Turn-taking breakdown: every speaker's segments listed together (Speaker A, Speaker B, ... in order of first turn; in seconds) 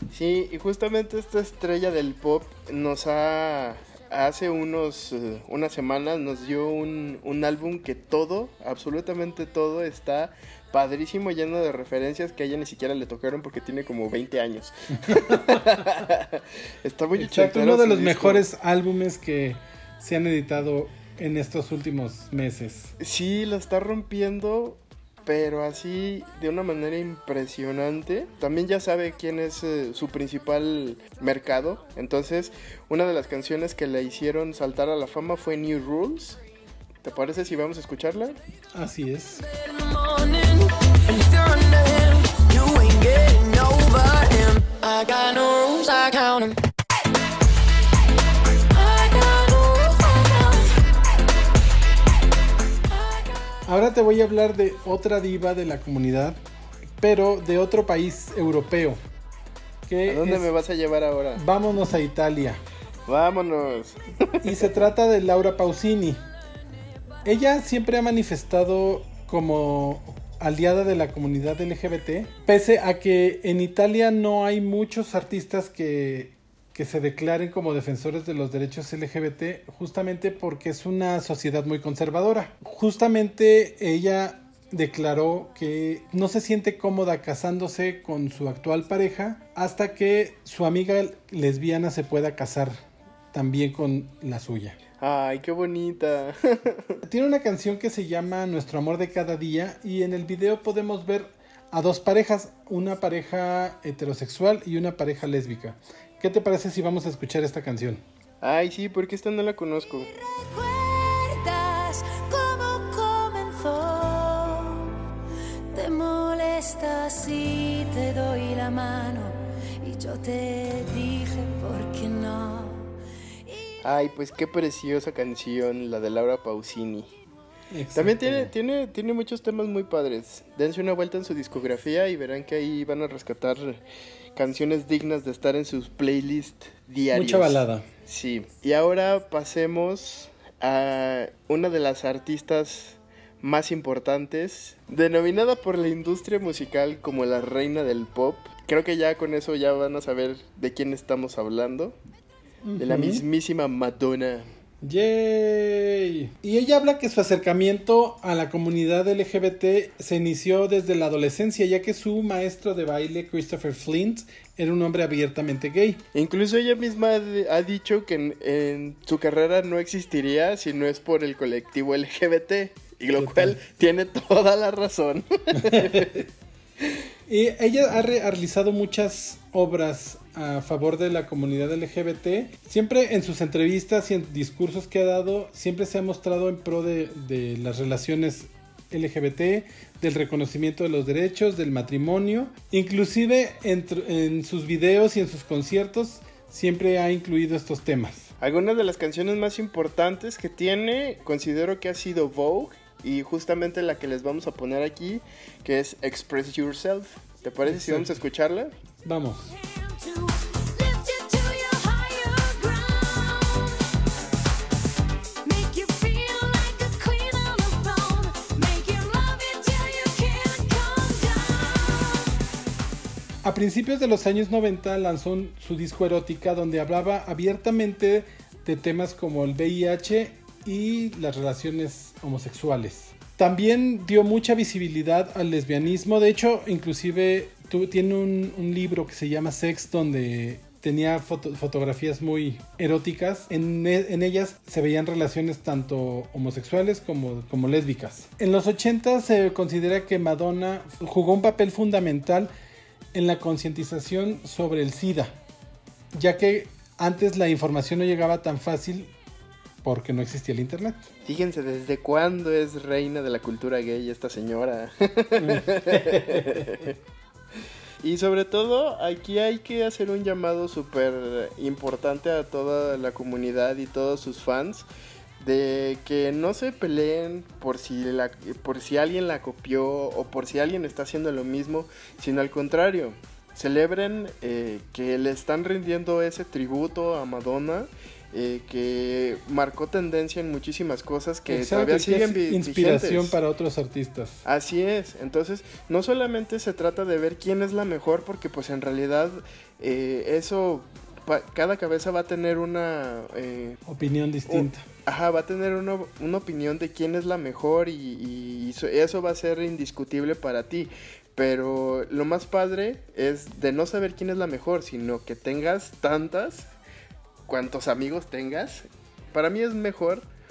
Speaker A: 0.1-18.4, 23.0-36.4, 37.0-38.4, 60.1-61.4, 63.1-64.7, 95.0-97.0, 108.4-110.1, 123.8-127.1, 127.9-133.8, 134.4-151.9, 152.8-154.5, 166.1-176.2, 198.4-208.7, 261.3-266.9, 268.0-274.9, 275.4-293.4, 294.4-303.8, 304.5-316.7, 317.5-320.3
Speaker B: 15.1-15.4, 17.1-22.9, 38.7-39.5, 53.6-56.4, 57.0-59.0, 59.9-60.5, 61.4-62.6, 64.4-66.2, 67.2-92.8, 93.3-94.8, 97.0-108.0, 127.7-128.5, 137.1-137.9, 152.6-153.2, 154.8-166.0, 173.2-173.6, 175.5-176.2, 177.3-198.3, 207.7-208.1, 209.0-209.5, 223.4-252.5, 253.1-255.4, 256.1-259.1, 259.8-261.1, 265.4-266.8, 291.5-294.4, 303.9-304.8
Speaker C: 39.5-46.6, 48.7-50.7, 52.9-53.3, 110.2-115.0, 115.7-122.9, 123.4-123.7, 209.6-213.9, 215.4-222.3